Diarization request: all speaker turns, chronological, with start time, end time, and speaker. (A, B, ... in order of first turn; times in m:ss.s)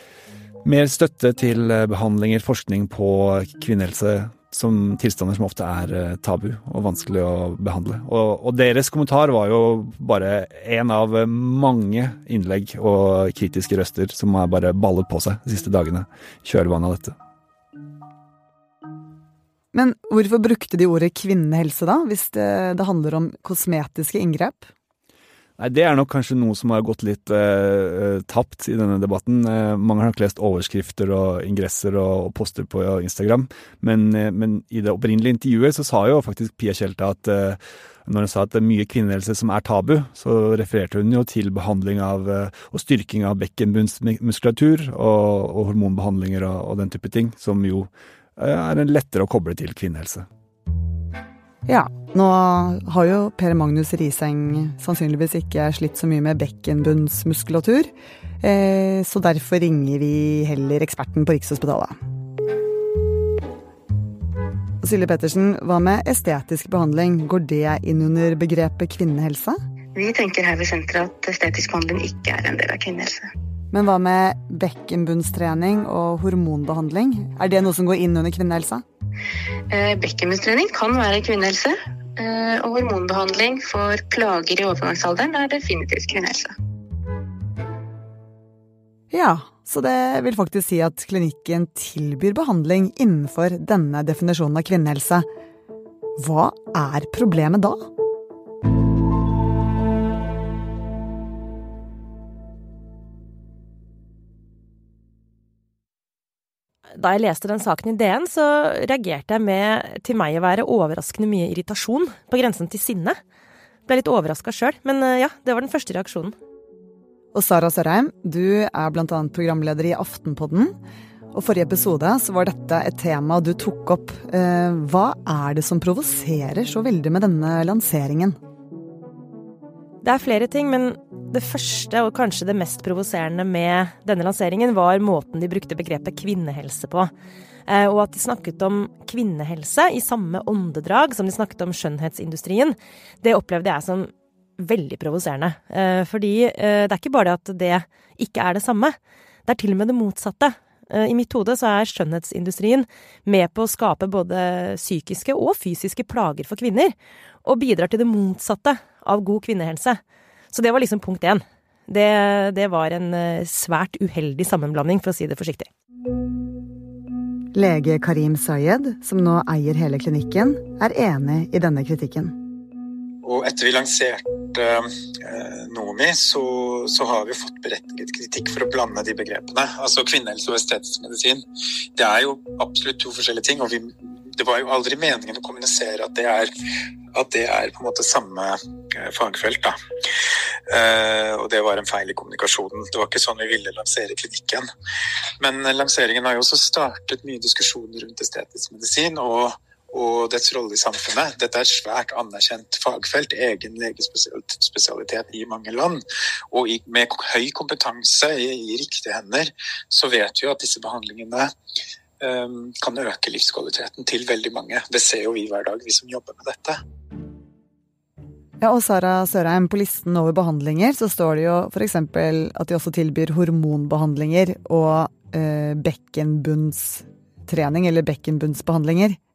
0:00.6-0:17.1 A
0:19.7-0:24.7 B
0:25.6-0:50.2 A
0:51.7-1:02.0 B
1:04.8-1:09.6 B
1:09.9-1:13.3 C
1:13.7-1:18.8 B
1:19.7-1:26.5 C
1:29.1-1:35.2 B
1:36.2-1:37.8 B
1:46.9-1:53.2 D
1:53.9-1:56.3 D
1:57.3-2:00.7 B
2:01.3-2:08.4 B
2:10.0-2:17.1 D
2:17.7-2:40.0 D
2:40.5-2:45.7 D
2:47.5-2:52.4 B
2:53.2-3:01.4 E
3:02.0-3:06.5 E
3:07.1-3:09.7 E
3:10.7-3:14.6 E
3:15.4-3:26.0 E
3:26.5-3:31.5 E
3:32.2-3:36.8 E
3:38.6-3:49.2 B